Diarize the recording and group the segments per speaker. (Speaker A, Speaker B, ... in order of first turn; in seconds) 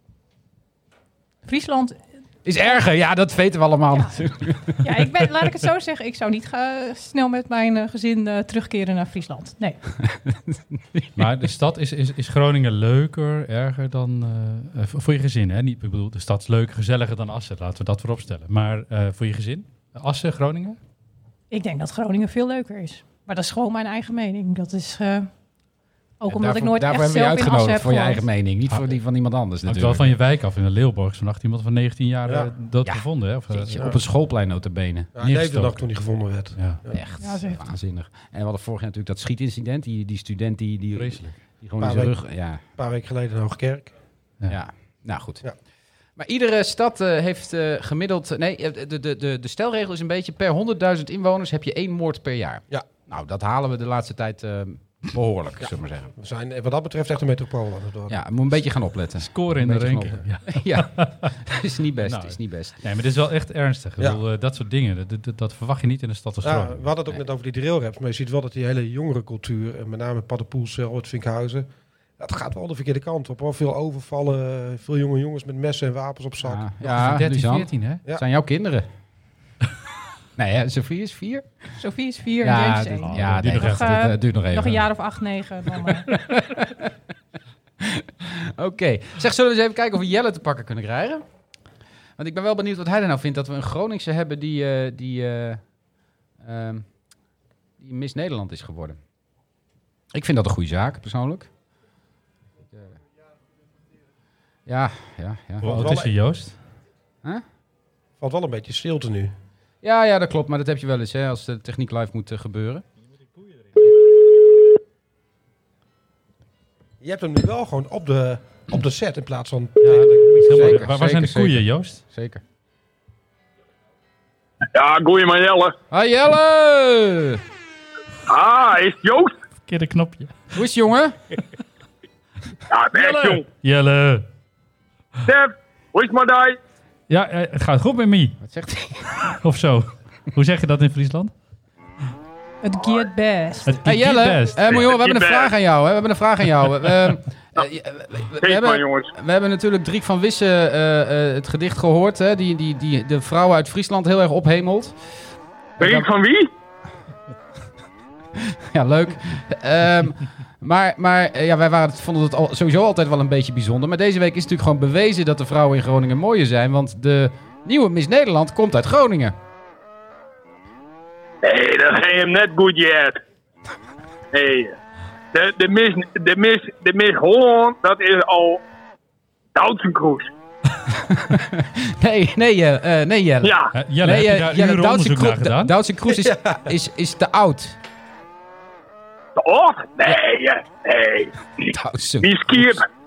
Speaker A: 1.4-2.0, 4.8-9.8, 21.5-25.3, 26.2-28.3, 37.2-37.6, 81.8-86.1, 142.6-143.8
Speaker B: 2.5-4.8, 10.0-11.2, 26.3-30.1, 32.8-35.1, 36.9-42.6, 44.5-45.4, 46.2-56.1, 58.1-62.8, 76.4-78.9, 80.4-81.5, 82.4-84.8, 86.2-86.9, 87.8-91.2, 92.2-95.7, 96.4-96.9, 97.8-99.0, 100.1-101.5, 104.7-105.8, 109.8-112.8, 120.5-122.4, 125.9-127.4, 130.5-131.2, 138.4-139.3, 143.8-154.9, 155.8-156.1, 158.4-169.4, 180.9-187.8, 191.7-192.8
Speaker C: 11.2-20.8, 29.7-33.9, 35.2-35.9, 36.6-36.8, 41.0-41.4, 59.2-61.3, 62.0-66.8, 76.8-78.0, 83.1-84.0, 105.6-106.6, 119.8-122.0, 129.7-130.5, 132.9-134.3, 137.1-138.4, 139.3-141.3, 143.7-144.8, 183.7-185.8
Speaker D: 32.2-32.5, 35.1-37.0, 41.8-43.9, 55.6-58.2, 66.4-71.7, 72.2-77.1, 105.7-106.1, 108.2-109.3, 117.0-120.9, 186.1-186.7
Speaker E: 124.8-125.8, 128.3-129.3, 132.7-133.4, 135.2-136.6, 144.7-145.5, 148.4-149.1, 155.8-156.5, 171.4-173.2, 174.3-174.8, 175.3-178.6, 179.6-180.3, 183.4-183.7, 189.4-191.7, 192.2-192.9